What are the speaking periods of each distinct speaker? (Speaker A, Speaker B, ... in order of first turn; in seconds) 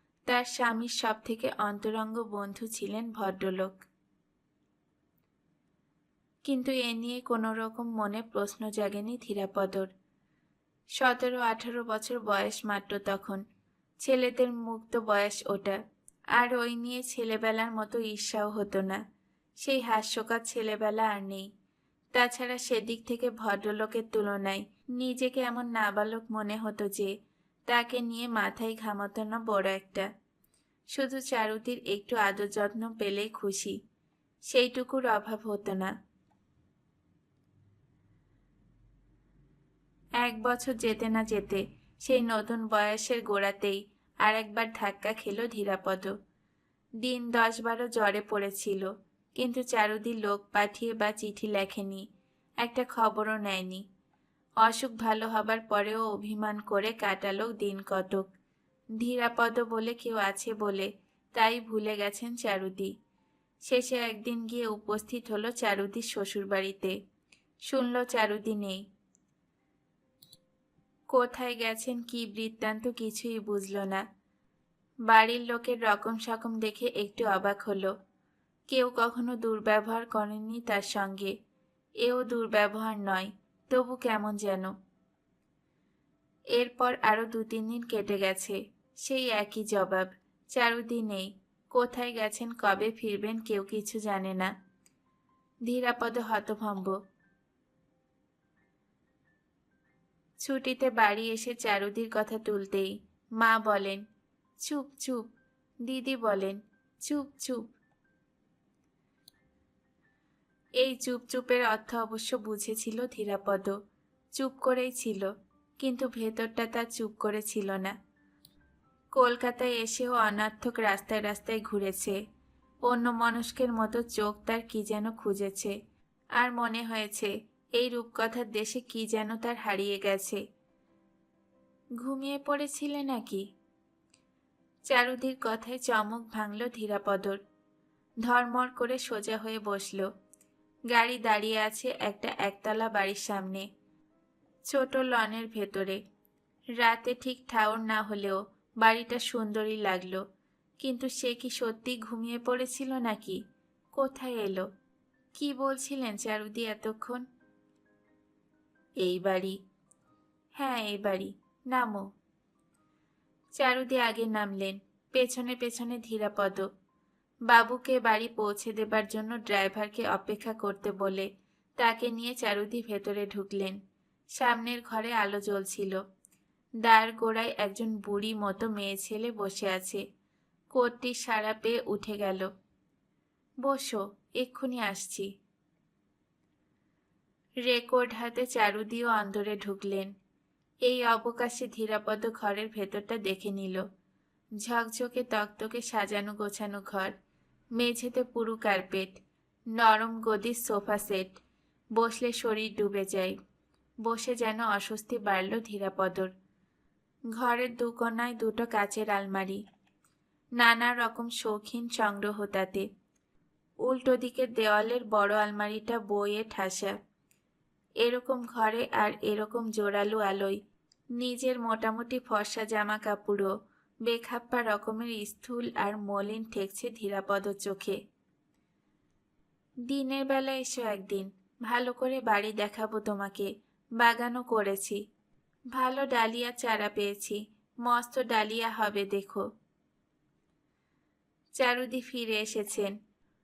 Speaker A: 0.3-3.8, 6.5-9.9, 11.0-13.4, 14.0-15.8, 16.3-19.0, 19.6-21.5, 22.1-27.1, 27.7-30.1, 30.9-33.8, 34.5-35.9, 40.2-46.1, 47.0-52.0, 52.6-53.8, 54.6-58.2, 59.0-62.9, 63.6-66.9, 67.7-68.8, 71.1-74.0, 75.1-77.9, 78.7-81.3, 82.0-84.7, 86.5-94.5, 95.7-97.0, 100.4-104.0, 104.6-105.3, 105.8-107.7, 110.8-113.7, 114.3-115.3, 115.8-117.9, 119.1-122.2, 122.9-125.7, 126.4-130.4, 132.0-133.4, 134.9-137.4, 138.2-140.1, 140.9-143.7, 144.7-146.0, 146.8-150.2, 150.8-153.4, 153.9-154.7, 155.3-157.2, 159.0-159.6, 160.6-162.1, 163.6-166.7, 167.5-171.3, 171.8-173.8, 174.3-176.0, 176.8-180.0, 180.7-182.5, 183.6-185.3, 187.6-190.1, 190.8-193.8, 194.6-197.1, 197.8-199.2, 199.8-201.4, 201.9-203.3, 204.0-206.3, 207.3-209.6, 210.6-212.8, 213.8-216.9, 218.0-220.6, 221.2-223.5, 224.1-228.0, 229.9-235.0, 235.7-239.5, 241.6-242.9